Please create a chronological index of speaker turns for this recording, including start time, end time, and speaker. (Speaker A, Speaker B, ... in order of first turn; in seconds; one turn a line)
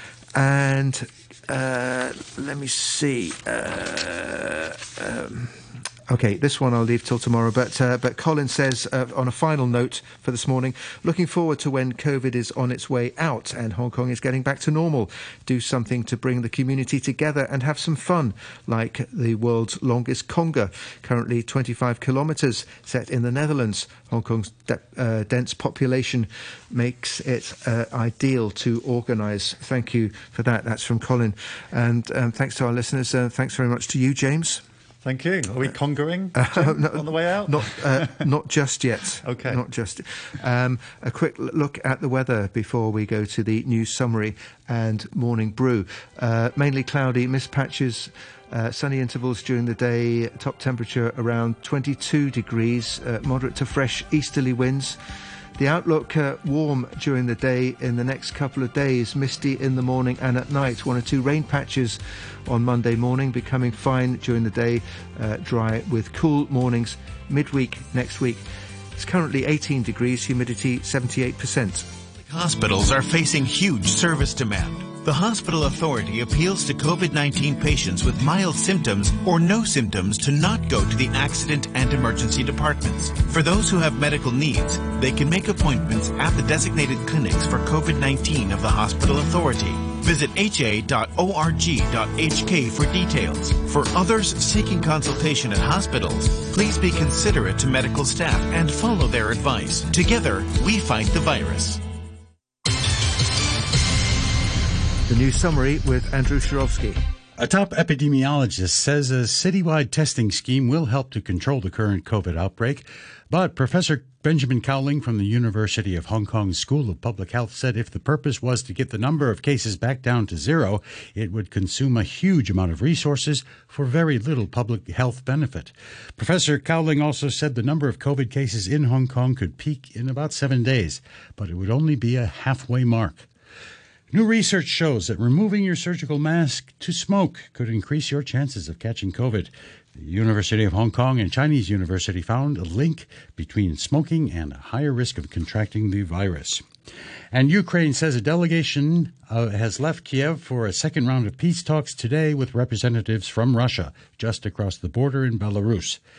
Speaker A: 0.3-34.6
Speaker B: 35.0-38.2
Speaker A: 36.3-55.0
Speaker B: 39.2-39.6
Speaker A: 55.6-68.5
Speaker A: 69.0-71.9
Speaker C: 72.2-101.8
Speaker A: 105.1-107.0
Speaker D: 107.4-133.3
Speaker D: 134.1-146.7
Speaker D: 147.3-156.0